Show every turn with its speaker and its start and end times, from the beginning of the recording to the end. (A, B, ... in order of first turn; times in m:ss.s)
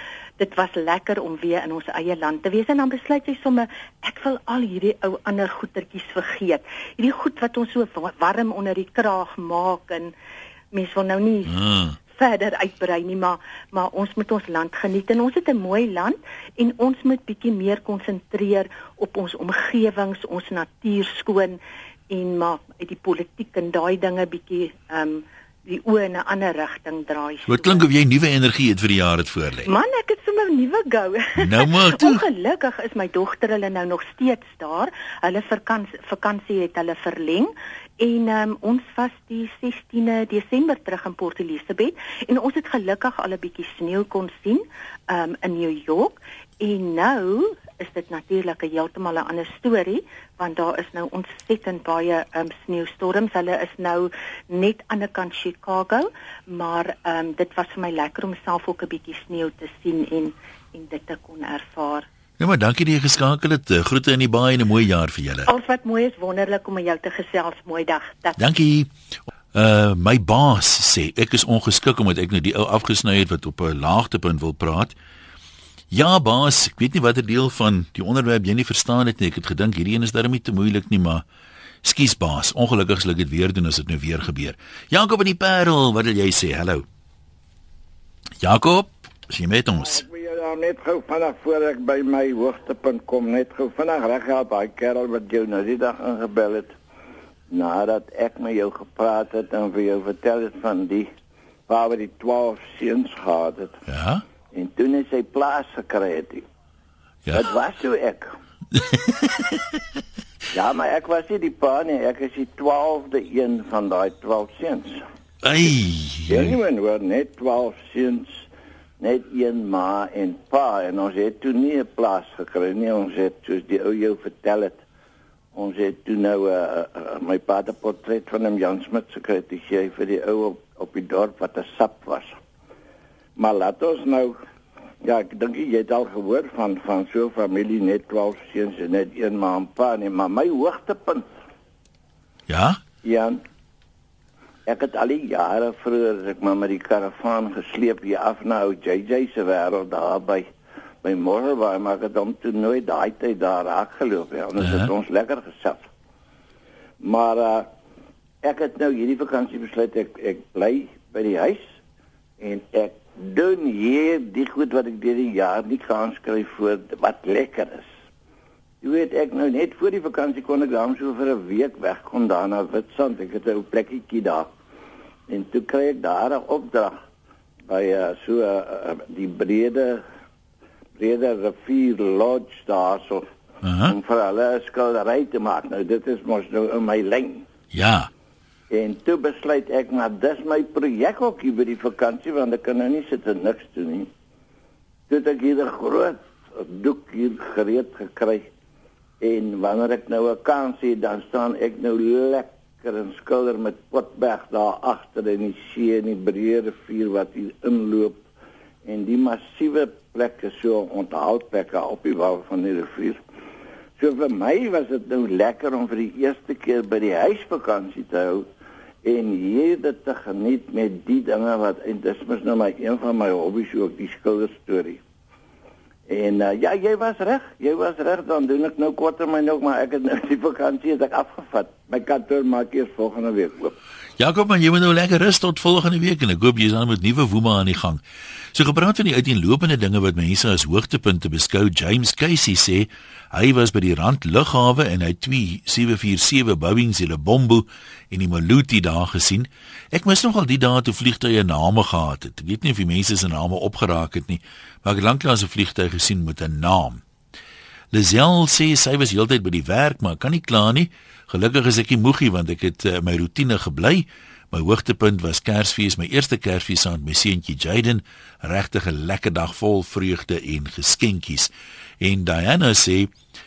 0:00.4-0:10.1 A
0:10.7-0:11.6 A
0:11.5-0:12.0 B
0:12.1-0:21.6 A
0:22.1-0:27.8 A
0:27.5-0:29.7 B
0:29.6-1:02.0 A
0:31.4-0:32.2 B
1:02.4-1:05.5 B
1:05.4-1:08.4 A
1:08.4-1:08.9 B
1:09.5-1:14.9 B
1:15.9-1:21.2 B
1:21.8-1:26.8 B
1:28.4-1:30.0 B
1:29.7-1:36.7 C
1:37.5-1:41.1 C
1:41.7-1:43.8 C
1:43.9-1:44.2 B
1:44.5-1:46.4 C
1:47.3-1:48.3 C
1:48.8-1:49.6 B
1:50.5-1:55.0 C
1:55.4-1:56.5 B
1:56.3-1:58.4 C
1:59.0-2:04.8 C
2:05.5-2:12.4 C
2:13.4-2:14.4 C
2:15.0-2:21.3 C
2:22.5-2:22.8 B
2:23.0-2:23.4 C
2:24.6-2:30.5 C
2:31.0-2:35.9 C
2:34.6-2:34.9 B
2:37.0-2:37.7 C
2:38.4-2:41.7 C
2:42.4-2:47.9 C
2:48.8-2:54.5 C
2:55.3-2:57.0 C
2:57.7-3:00.0 C
3:01.0-3:03.3 C
3:03.6-3:03.9 B
3:03.8-3:07.5 C
3:07.7-3:08.1 B
3:08.7-3:14.1 C
3:15.1-3:18.5 C
3:19.2-3:28.2 C
3:28.8-3:33.2 C
3:34.0-3:38.5 C
3:39.0-3:45.0 C
3:46.1-3:53.7 C
3:54.2-3:58.0 B
3:58.5-4:17.0 B
4:17.9-4:33.1 B